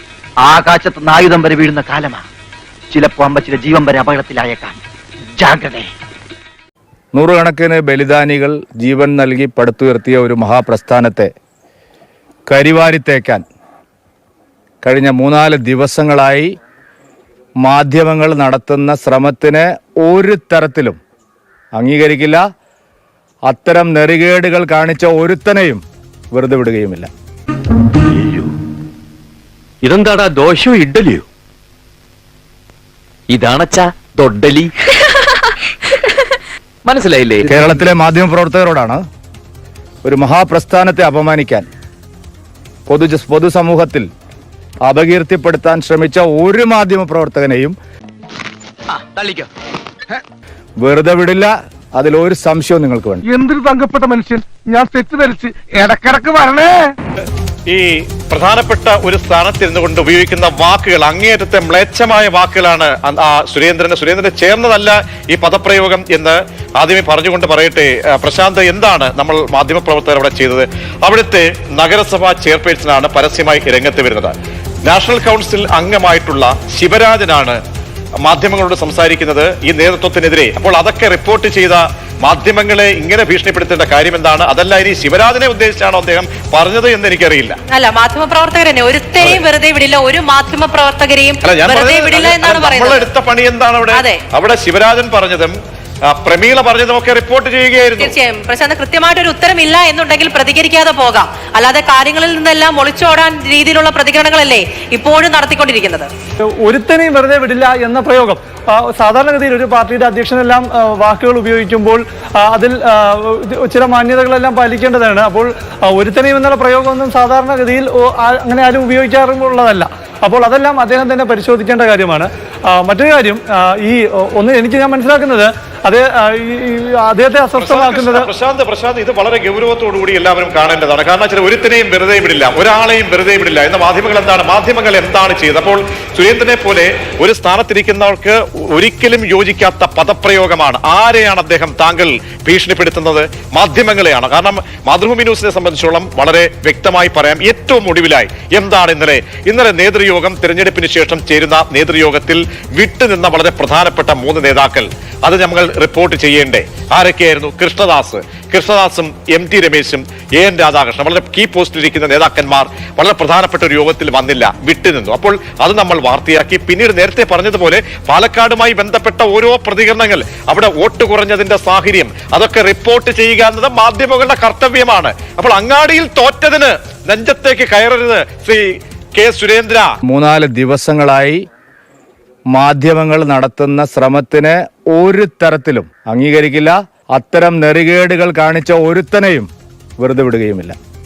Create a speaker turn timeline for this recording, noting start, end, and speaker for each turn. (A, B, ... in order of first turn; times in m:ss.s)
0:00.4-0:02.2 A
0:02.9-0:04.8 A
0:05.3-0:05.9 A
0:07.1-0:11.3 B
0:12.5-0:13.4 B
0:14.8-0:16.5 B
0:17.6-0:21.0 B
0:21.8-0:22.4 B
0:23.5-0:25.8 B
0:26.3-0:27.1 B
0:28.1-0:28.5 C
0:29.8-0:31.2 C
0:33.3-0:34.7 C
0:36.8-0:37.5 C
0:37.5-0:39.0 B
0:40.0-0:41.7 B
0:42.9-0:44.1 B
0:44.9-0:47.8 B
0:50.8-0:53.2 B
0:53.3-0:56.9 D
0:57.7-1:14.3 E
1:14.9-1:17.6 E
1:18.2-1:27.6 E
1:27.7-1:33.1 F
1:31.4-1:35.6 E
1:33.9-1:34.2 F
1:36.1-1:38.2 E
1:38.0-1:46.1 F
1:46.6-2:08.3 G
2:07.6-2:59.9 E
3:00.1-3:01.4 B
3:02.5-3:09.5 B
3:10.0-3:10.8 B